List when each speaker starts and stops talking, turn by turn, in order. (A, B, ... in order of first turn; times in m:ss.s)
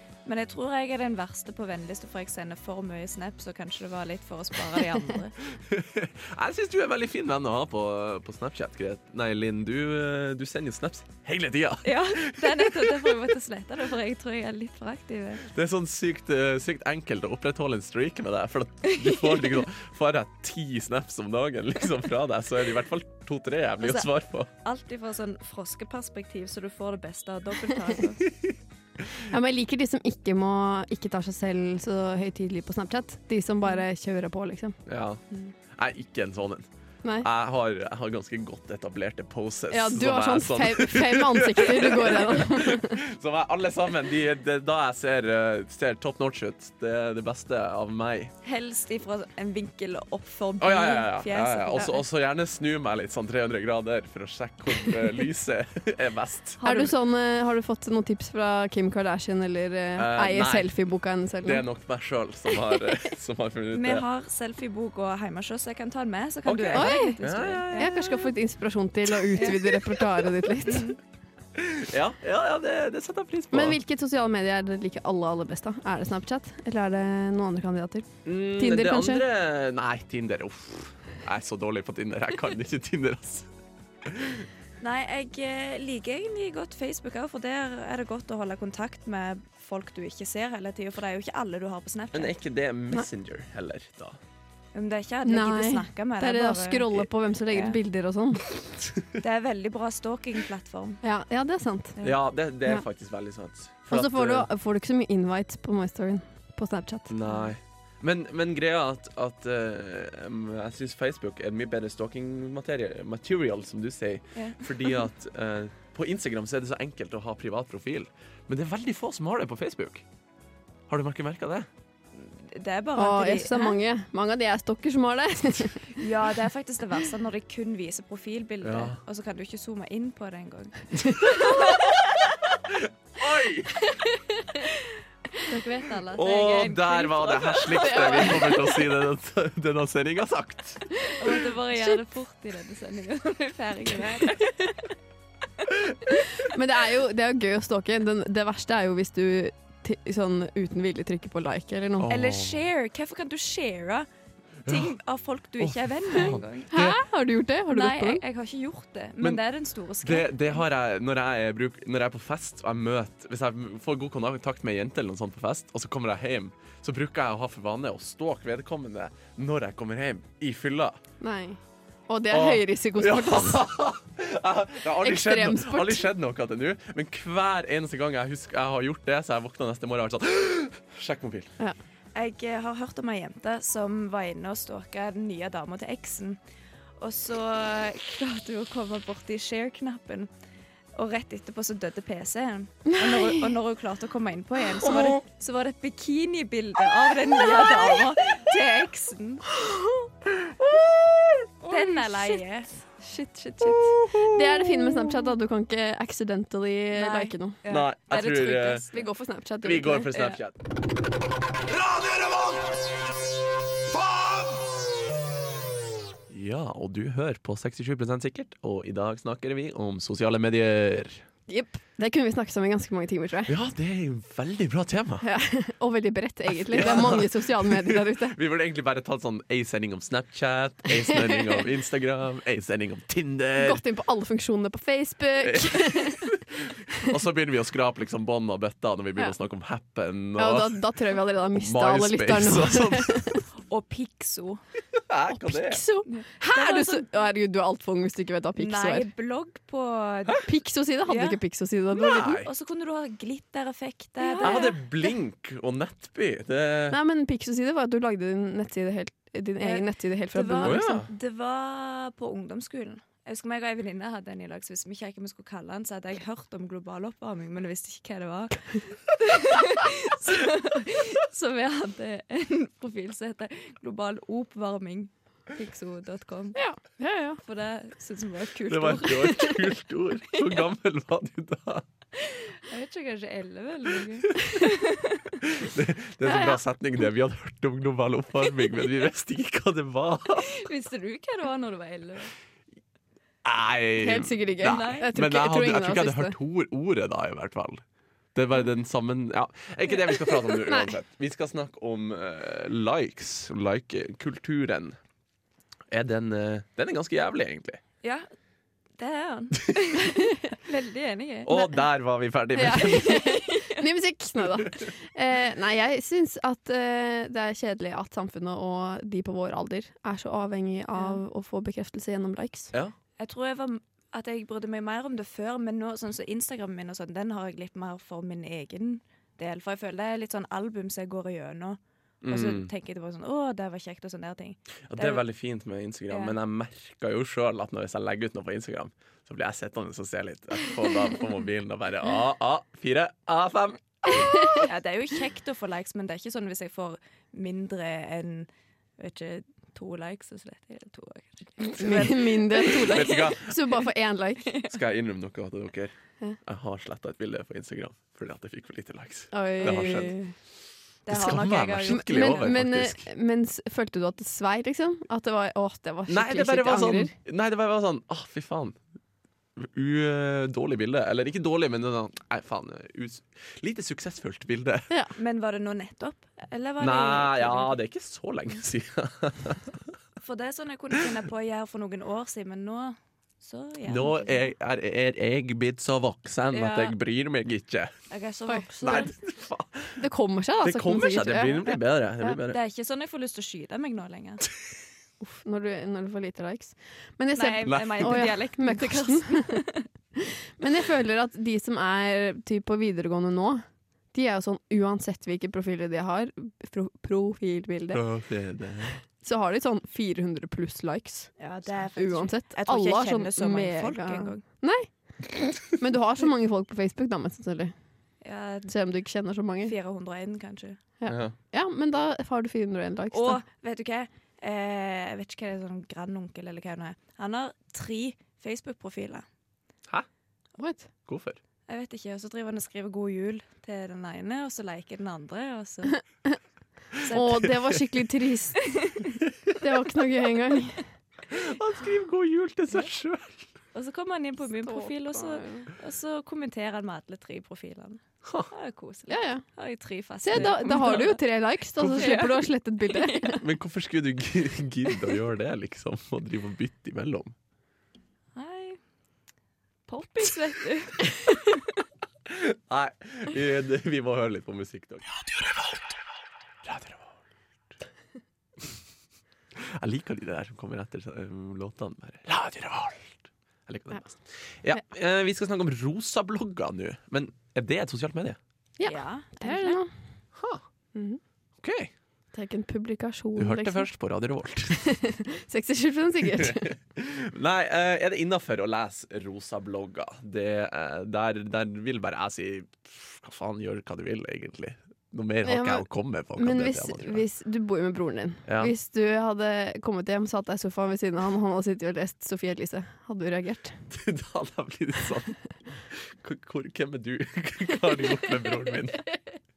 0:00.2-0:05.4 A
0:05.5-0:13.2 B
0:11.8-0:15.4 A
0:15.4-0:24.5 B
0:18.8-0:19.6 A
0:23.8-0:24.1 A
0:24.6-0:28.3 A
0:28.2-0:28.5 B
0:29.3-0:34.8 C
0:34.8-0:36.7 B
0:37.2-0:48.3 B
0:39.7-0:43.0 C
0:48.4-0:51.9 A
0:50.6-0:56.9 B
0:56.6-1:01.6 C
1:00.0-1:00.7 B
1:01.4-1:04.0 B
1:02.5-1:02.8 C
1:03.7-1:07.9 A
1:06.4-1:08.3 B
1:06.7-1:07.2 C
1:07.8-1:10.9 C
1:09.4-1:10.1 B
1:10.6-1:11.0 A
1:11.5-1:13.8 B
1:13.5-1:19.2 C
1:18.2-1:23.5 B
1:24.0-1:24.5 B
1:24.8-1:32.4 A
1:32.1-1:34.2 B
1:34.7-1:37.8 A
1:35.2-1:38.5 C
1:39.2-1:41.0 A
1:41.0-1:42.0 C
1:42.0-1:44.5 B
1:43.9-1:47.1 C
1:47.1-2:00.0 B
1:47.2-1:47.5 A
1:54.3-1:55.0 A
2:00.9-2:01.7 B
2:02.1-2:03.8 A
2:03.0-2:06.0 C
2:05.9-2:11.9 A
2:08.6-2:09.0 B
2:12.6-2:13.8 B
2:15.4-2:18.5 A
2:16.1-2:20.9 B
2:17.7-2:18.8 C
2:21.2-2:24.9 A
2:26.1-2:32.1 C
2:32.0-2:32.6 B
2:32.1-2:34.1 A
2:34.6-2:34.9 B
2:34.6-2:36.7 A
2:35.6-2:37.0 B
2:36.7-2:38.2 C
2:37.7-2:40.6 A
2:40.0-2:51.0 B
2:51.2-2:51.6 C
2:52.1-2:53.7 C
2:52.3-3:01.5 B
2:55.0-2:56.1 C
3:02.1-3:06.4 A
3:07.0-3:10.3 A
3:10.9-3:19.5 A
3:12.9-3:13.5 C
3:14.8-3:15.2 C
3:17.6-3:17.9 C
3:19.6-3:20.1 C
3:21.6-3:22.4 C
3:21.7-3:23.9 A
3:23.8-3:25.2 B
3:24.1-3:27.6 C
3:26.9-3:29.0 A
3:27.7-3:28.8 B
3:28.9-3:30.2 C
3:29.6-3:30.6 B
3:31.7-3:32.8 B
3:33.9-3:34.6 B
3:36.3-3:41.2 B
3:41.5-3:43.5 C
3:43.5-3:45.2 B
3:45.2-3:48.4 C
3:46.6-3:53.8 B
3:53.6-3:56.4 C
3:55.4-4:00.8 B
4:00.4-4:03.4 C
4:01.5-4:03.4 B
4:03.6-4:04.6 A
4:04.9-4:05.8 B
4:05.3-4:09.0 C
4:06.0-4:07.0 A
4:08.6-4:10.4 A
4:10.4-4:12.4 C
4:11.0-4:11.4 A
4:11.9-4:12.5 B
4:12.4-4:14.8 A
4:14.2-4:14.8 C
4:14.4-4:17.0 B
4:16.9-4:21.0 C
4:19.6-4:36.6 A
4:20.6-4:21.1 B
4:36.6-4:37.4 C
4:37.4-4:39.7 A
4:38.7-4:41.8 B
4:42.2-4:45.4 A
4:45.4-4:50.6 B
4:46.2-4:46.6 C
4:50.4-4:52.3 A
4:53.4-4:57.8 B
4:54.0-4:56.4 C
4:54.6-4:55.1 A
4:58.3-5:05.0 B
5:00.6-5:00.9 C
5:05.9-5:07.8 B
5:09.0-5:11.7 A
5:11.4-5:13.4 B
5:12.6-5:22.7 C
5:13.1-5:13.8 A
5:21.0-5:21.2 A
5:23.2-5:35.2 A
5:32.2-5:32.7 B
5:34.9-5:44.5 B
5:36.1-5:36.3 A
5:44.1-5:44.6 C
5:44.6-5:53.4 A
5:51.6-5:54.5 C
5:52.8-5:53.5 B
5:54.5-5:54.7 A
5:54.6-5:55.9 B
5:56.4-6:00.2 B
5:59.3-6:00.3 C
6:01.0-6:02.5 A
6:01.1-6:03.0 B
6:01.9-6:07.1 C
6:06.1-6:08.8 B
6:09.6-6:14.9 B
6:15.2-6:17.8 A
6:16.8-6:19.8 B
6:20.2-6:24.5 A
6:23.9-6:27.9 B
6:26.5-6:26.9 A
6:28.1-6:29.1 A
6:28.5-6:29.1 C
6:28.8-6:30.0 B
6:30.0-6:31.6 C
6:30.6-6:32.6 B
6:32.4-6:34.4 A
6:35.2-6:39.6 C
6:37.3-6:39.9 A
6:37.6-6:38.3 B
6:40.2-6:48.0 C
6:47.9-6:49.0 B
6:49.2-6:51.4 C
6:51.4-6:54.4 A
6:52.0-6:57.7 C
6:58.2-6:58.7 A
6:58.7-6:59.7 C
6:59.6-7:00.8 A
7:01.0-7:03.4 C
7:01.1-7:01.3 B
7:03.1-7:09.2 A
7:10.6-7:10.9 C
7:11.0-7:11.4 B
7:11.7-7:16.0 A
7:17.0-7:17.4 A
7:17.1-7:18.7 C
7:17.4-7:17.8 B
7:18.6-7:19.2 A
7:19.2-7:19.6 B
7:19.6-7:20.8 C
7:21.3-7:23.5 B
7:23.7-7:31.2 A
7:24.6-7:25.7 C
7:28.2-7:28.5 B
7:29.1-7:29.4 C
7:30.2-7:33.4 C
7:30.3-7:31.0 B
7:31.8-7:32.3 B
7:32.0-7:32.3 A
7:32.9-7:33.4 A
7:33.4-7:37.3 B
7:38.3-7:38.8 A
7:39.9-7:41.6 A
7:42.2-7:45.8 B
7:46.6-7:47.1 B
7:49.5-7:58.4 B
7:58.8-7:59.9 C
7:58.8-7:59.8 A
8:00.4-8:00.6 B
8:00.9-8:01.2 C
8:01.6-8:01.9 B
8:02.3-8:03.8 C
8:03.4-8:04.8 B
8:04.7-8:06.7 C
8:06.4-8:17.2 B
8:15.4-8:23.8 C
8:18.5-8:18.7 B
8:23.9-8:25.4 B
8:25.9-8:29.1 B